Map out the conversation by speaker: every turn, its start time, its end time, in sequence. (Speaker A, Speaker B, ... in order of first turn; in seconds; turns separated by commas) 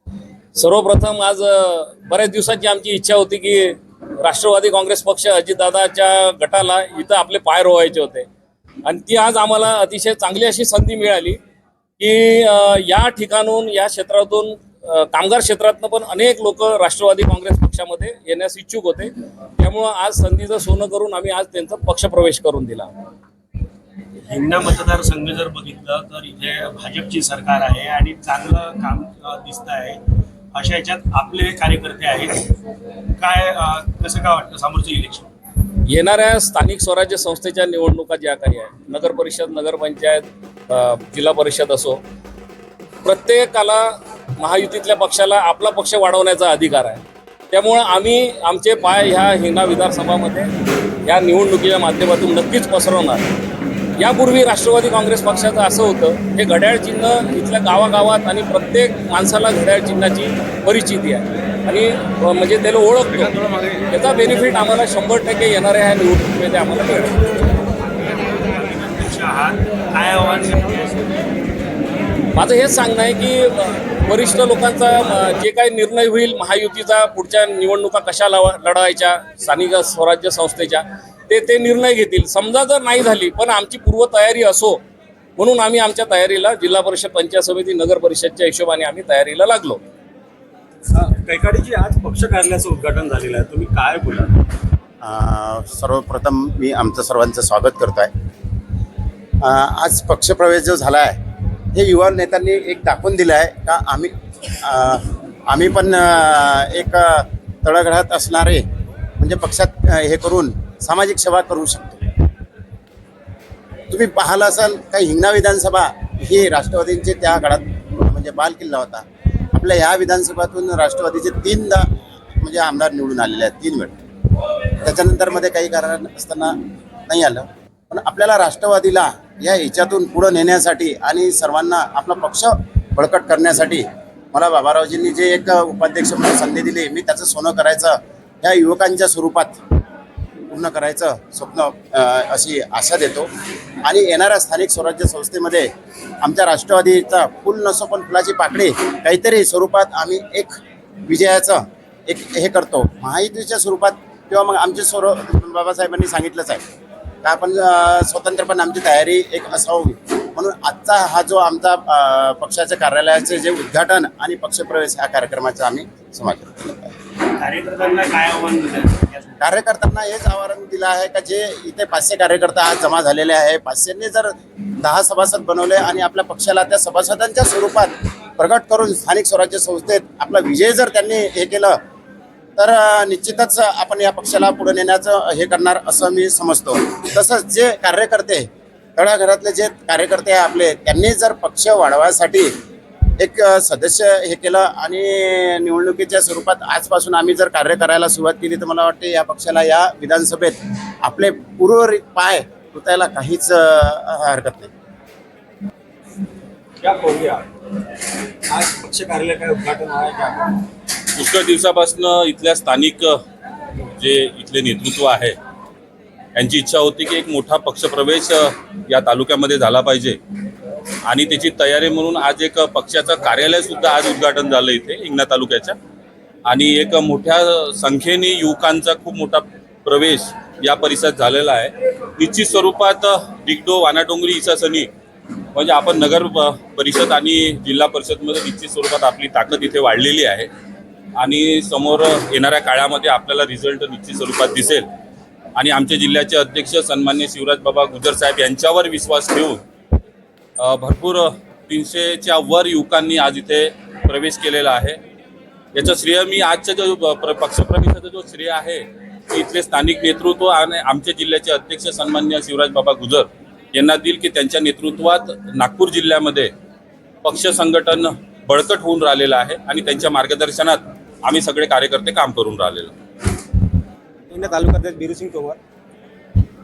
Speaker A: 0.6-8.3, Speaker A: 8.8-11.4, Speaker A: 12.0-22.9, Speaker B: 24.3-30.0, Speaker B: 30.5-32.5, Speaker B: 33.2-35.3, Speaker A: 35.9-42.0, Speaker A: 43.0-50.5, Speaker A: 51.0-53.3, Speaker A: 54.0-67.2, Speaker B: 67.8-71.2, Speaker A: 72.3-84.8, Speaker A: 85.4-89.8, Speaker B: 91.8-92.1, Speaker B: 92.8-93.1, Speaker C: 95.0-98.1, Speaker C: 99.4-101.2, Speaker C: 101.7-108.6, Speaker C: 109.2-112.1, Speaker C: 113.9-124.0, Speaker C: 124.8-126.5, Speaker C: 127.1-139.6, Speaker C: 140.5-143.3, Speaker C: 143.8-145.7, Speaker C: 146.2-150.6, Speaker C: 151.1-156.6, Speaker C: 157.2-166.9, Speaker B: 167.3-169.4, Speaker C: 169.4-181.8, Speaker C: 182.6-192.5, Speaker C: 193.2-204.7, Speaker D: 206.8-207.4, Speaker D: 208.5-210.6, Speaker E: 211.2-213.2, Speaker E: 213.9-215.4, Speaker E: 216.4-220.2, Speaker E: 221.1-225.8, Speaker E: 226.5-234.9, Speaker E: 235.5-240.5, Speaker E: 241.2-244.9, Speaker E: 245.6-249.6, Speaker E: 250.6-255.0, Speaker E: 255.7-266.5, Speaker E: 267.2-272.9, Speaker D: 274.3-275.6